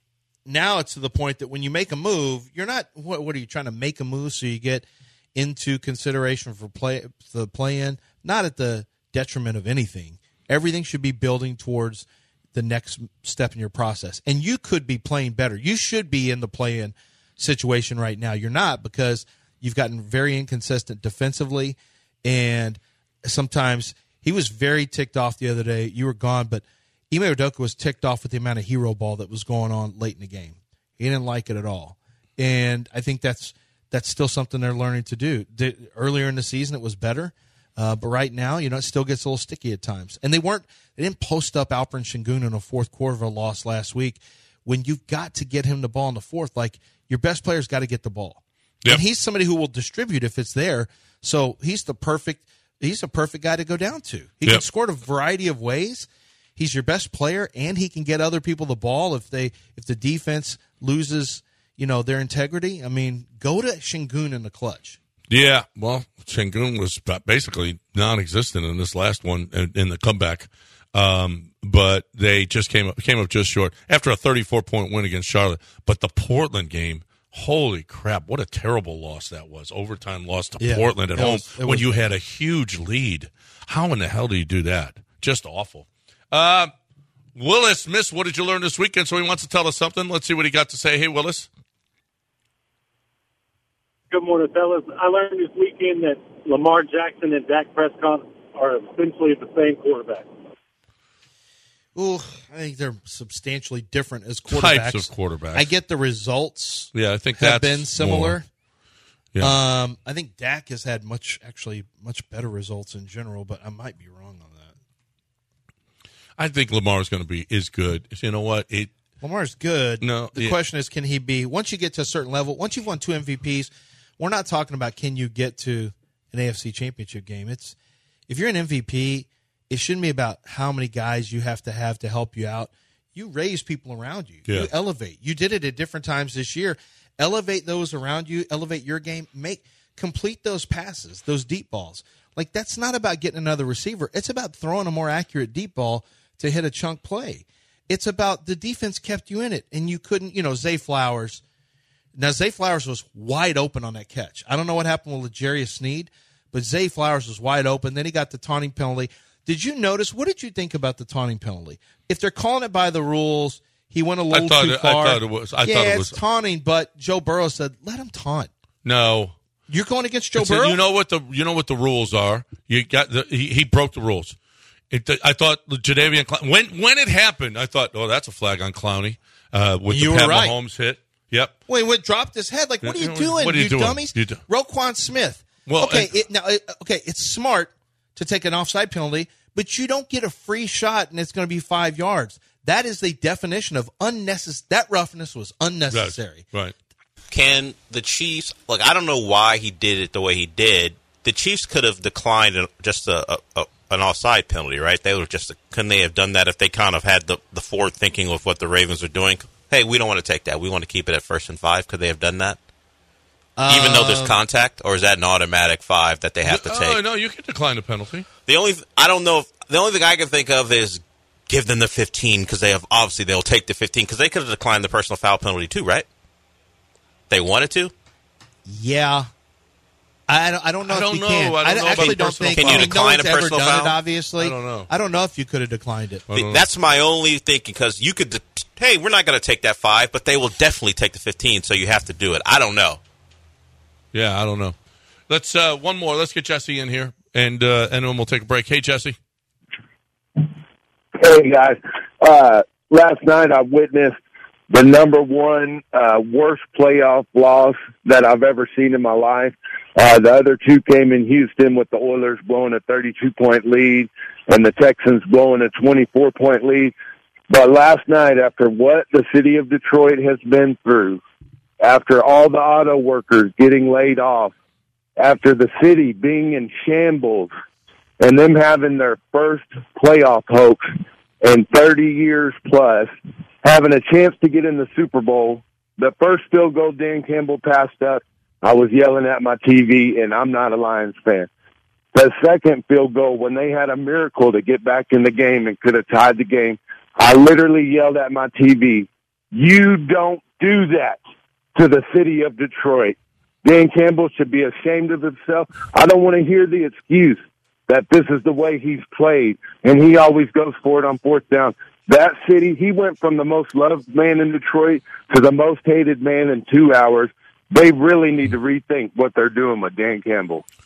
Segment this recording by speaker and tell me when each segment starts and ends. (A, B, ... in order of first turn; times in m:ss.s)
0:00.4-1:05.0 A
1:05.3-1:26.7 B
1:20.6-1:22.0 A
1:27.3-1:31.5 B
1:34.1-1:40.3 C
1:41.9-1:48.4 A
1:44.5-1:45.7 B
1:46.9-1:48.4 B
1:49.4-1:54.7 A
1:56.4-1:58.9 B
1:59.2-2:07.8 A
2:00.0-2:00.6 B
2:08.3-2:31.4 A
2:32.2-2:48.5 A
2:44.3-2:46.2 B
2:48.8-2:49.3 B
2:49.7-2:50.8 A
2:50.4-2:54.4 B
2:54.9-3:01.5 B
2:59.9-3:00.5 A
3:01.7-3:16.4 A
3:02.8-3:04.4 B
3:05.6-3:06.2 B
3:15.9-3:16.7 B
3:17.3-3:32.6 D
3:33.6-3:34.4 A
3:33.7-3:37.0 D
3:36.4-3:38.3 B
3:38.5-3:46.0 D
3:47.3-3:47.9 D
3:48.6-3:49.3 A
3:50.3-3:56.2 A
3:50.8-3:53.0 B
3:52.0-3:54.0 D
3:54.4-3:54.9 B
3:56.3-3:56.6 B
3:56.4-4:03.0 D
4:04.1-4:04.8 B
4:05.3-4:09.2 B
4:11.2-4:14.2 E
4:14.7-4:26.9 E
4:27.5-4:31.2 E
4:31.8-4:34.5 E
4:35.2-4:37.5 E
4:38.2-4:51.5 E
4:52.1-5:01.2 E
5:01.7-5:20.6 E